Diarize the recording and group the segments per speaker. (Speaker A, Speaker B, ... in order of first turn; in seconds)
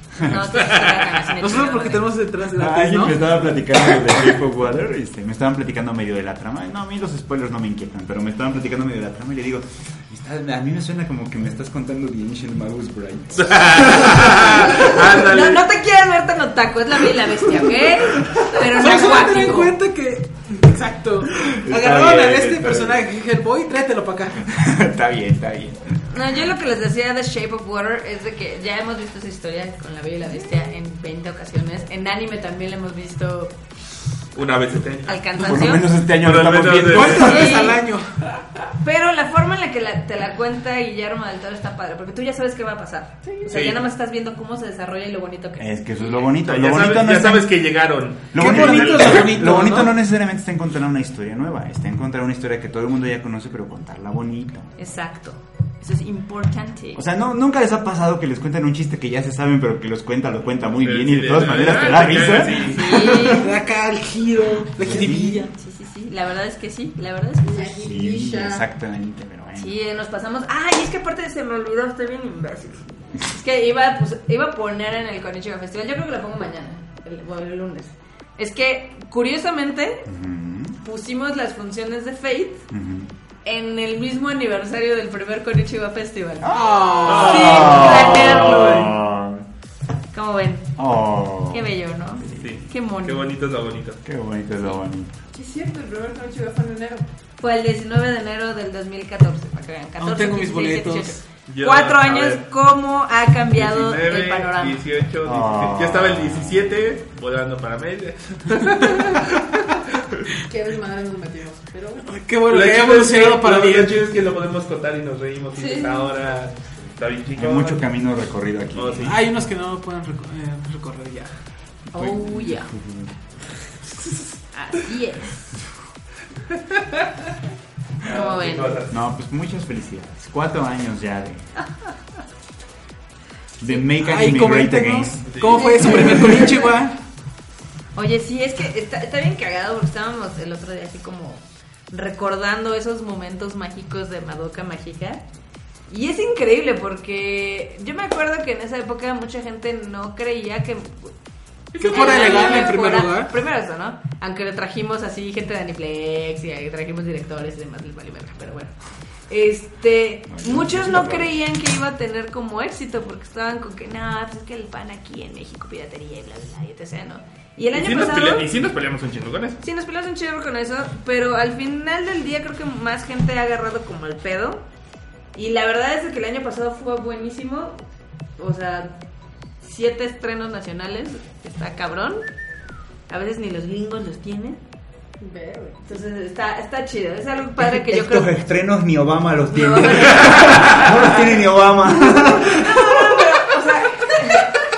Speaker A: 0.2-2.1, 15.1-19.8, 26.1-33.6, 35.1-35.9, 37.2-37.8, 38.8-46.2, 54.8-57.0, 62.6-63.5, 65.5-67.8, 69.6-80.1, 80.8-82.7, 83.5-89.0, 90.1-90.7, 91.5-93.3, 97.4-104.8, 115.6-116.1, 121.9-122.7, 124.5-125.5, 128.1-128.8, 135.6-136.7, 137.9-145.2, 145.9-151.1, 151.8-158.7, 159.3-168.5, 169.6-174.6, 175.3-177.8, 178.4-179.0, 179.6-182.2, 183.1-184.6, 185.9-188.3, 189.5-190.8, 192.5-194.5
Speaker B: 0.3-1.3, 13.4-15.6, 34.4-35.2, 36.1-37.3, 43.5-43.8, 46.4-49.3, 60.8-63.2, 87.0-88.9, 92.3-94.0, 101.5-102.4, 103.5-109.5, 112.5-117.9, 118.8-119.2, 126.7-127.0, 128.0-129.0, 135.3-135.7, 151.8-152.4, 167.7-169.6
Speaker C: 1.4-3.3, 18.7-24.5, 36.9-38.2, 48.4-50.0, 63.3-65.5, 86.5-87.6, 100.0-101.2, 112.0-114.1, 119.1-121.3, 134.0-137.0, 151.8-153.3
Speaker D: 2.5-15.2, 21.3-23.1, 24.4-26.4, 35.4-37.5, 45.6-47.5, 48.3-54.7, 57.0-63.4, 64.8-65.5, 67.8-69.8, 80.1-80.8, 82.7-83.1, 86.4-89.4, 90.8-91.7, 92.2-92.6, 94.0-95.1, 105.2-106.9, 117.4-119.2, 122.0-123.1, 128.9-131.5, 133.6-135.2, 160.3-161.3, 187.6-193.2
Speaker E: 67.4-68.6, 86.8-87.7, 95.3-97.1, 110.5-112.1, 185.2-185.9, 192.8-193.6